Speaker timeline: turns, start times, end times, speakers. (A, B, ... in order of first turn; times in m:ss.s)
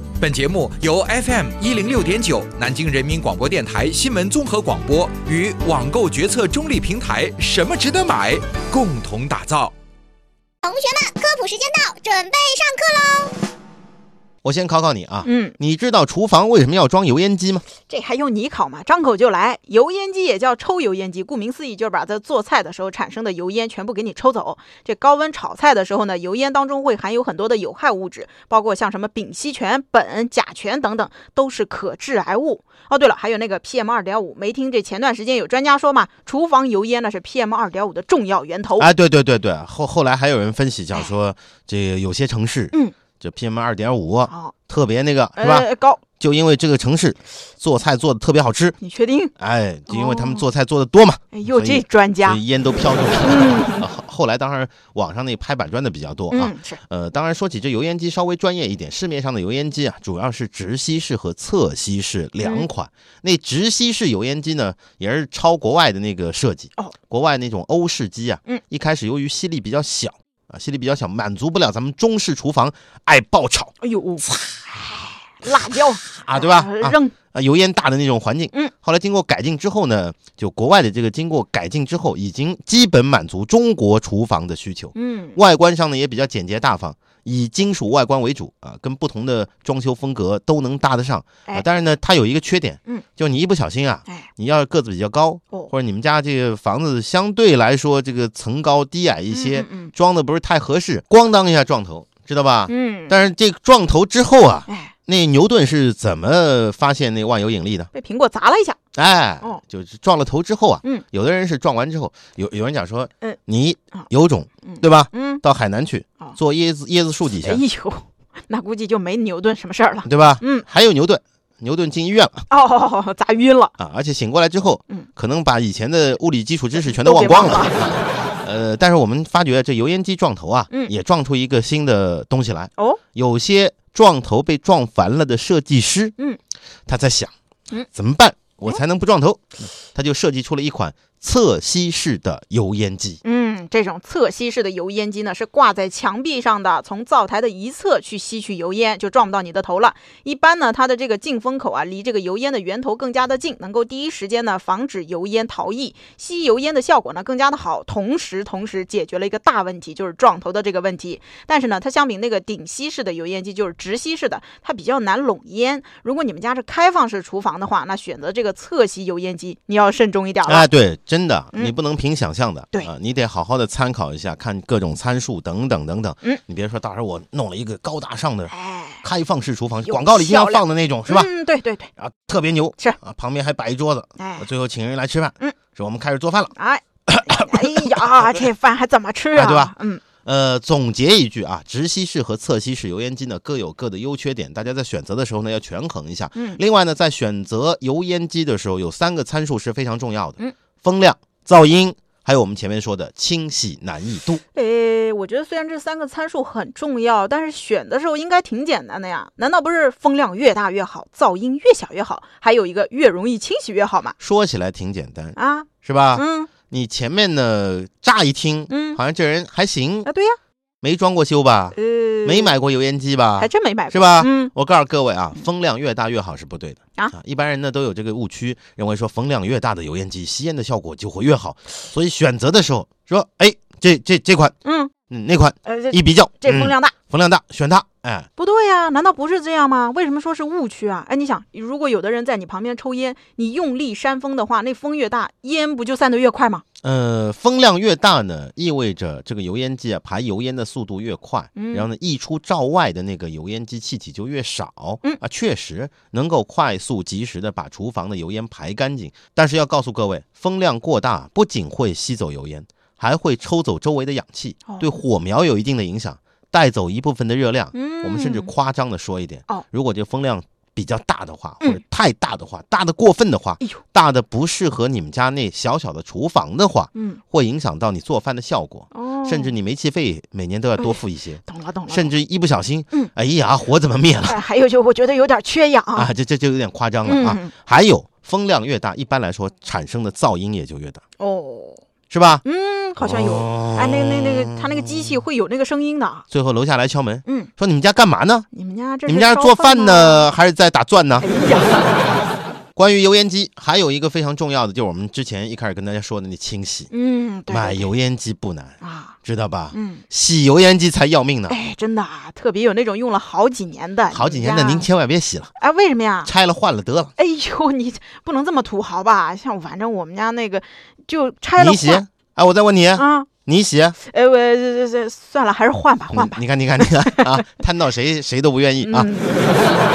0:00.2-0:09.7 A
0:10.6-0:13.3 B
0:14.4-0:17.6 C
0:15.2-0:15.5 D
0:17.8-0:38.9 D
0:38.8-0:48.8 C
0:44.3-0:44.5 D
0:45.4-0:46.0 D
0:48.8-0:49.3 D
0:49.4-1:13.7 C
0:49.9-0:50.4 D
0:51.3-0:52.4 D
0:53.2-0:53.8 D
0:56.3-0:56.8 D
1:02.4-1:02.7 D
1:13.8-1:17.1 D
1:16.2-1:47.9 C
1:24.9-1:25.4 D
1:39.3-1:39.9 D
1:42.7-1:43.2 D
1:44.7-1:44.9 D
1:47.9-1:48.8 D
1:48.9-1:57.6 C
1:54.6-1:55.4 D
1:57.4-2:00.6 D
2:00.0-2:02.5 C
2:02.5-2:03.7 D
2:03.8-2:16.1 C
2:06.8-2:07.9 D
2:16.9-2:17.3 C
2:17.9-2:23.2 C
2:23.2-2:50.7 D
2:50.4-3:01.3 C
2:58.5-2:59.0 D
2:59.8-3:01.9 D
3:02.0-3:06.5 C
3:04.2-3:04.5 D
3:06.5-3:10.0 D
3:07.1-3:07.9 C
3:09.3-3:24.4 C
3:24.5-3:34.2 D
3:34.2-3:40.1 C
3:35.4-3:36.5 D
3:38.7-3:39.0 D
3:40.0-3:40.4 D
3:40.8-3:54.5 C
3:41.7-3:42.5 D
3:43.4-3:44.5 D
3:54.6-3:54.9 D
3:55.1-3:58.3 C
3:55.6-3:56.9 D
3:58.4-4:06.6 D
4:06.8-4:44.4 C
4:11.5-4:11.9 D
4:24.6-4:24.9 D
4:27.7-4:28.5 D
4:36.9-4:37.2 D
4:38.9-4:39.5 D
4:40.8-4:42.1 D
4:44.2-4:46.1 D
4:45.9-4:51.0 C
4:47.0-4:47.5 D
4:51.2-4:51.8 D
4:52.1-4:52.4 C
4:52.4-4:56.2 D
4:53.0-4:55.2 C
4:56.3-4:58.5 C
4:57.2-4:57.5 D
4:58.5-5:00.2 D
4:59.0-5:01.3 C
5:01.2-5:02.0 D
5:02.8-5:06.9 C
5:06.9-5:07.9 D
5:07.5-5:11.6 C
5:08.8-5:09.2 D
5:09.7-5:10.0 D
5:11.5-5:14.8 D
5:14.1-5:15.5 C
5:15.6-5:16.3 D
5:16.2-5:17.1 C
5:17.2-5:22.0 D
5:21.6-5:24.0 C
5:23.0-5:23.3 D
5:24.0-5:27.5 D
5:26.1-5:29.1 C
5:28.8-5:29.5 D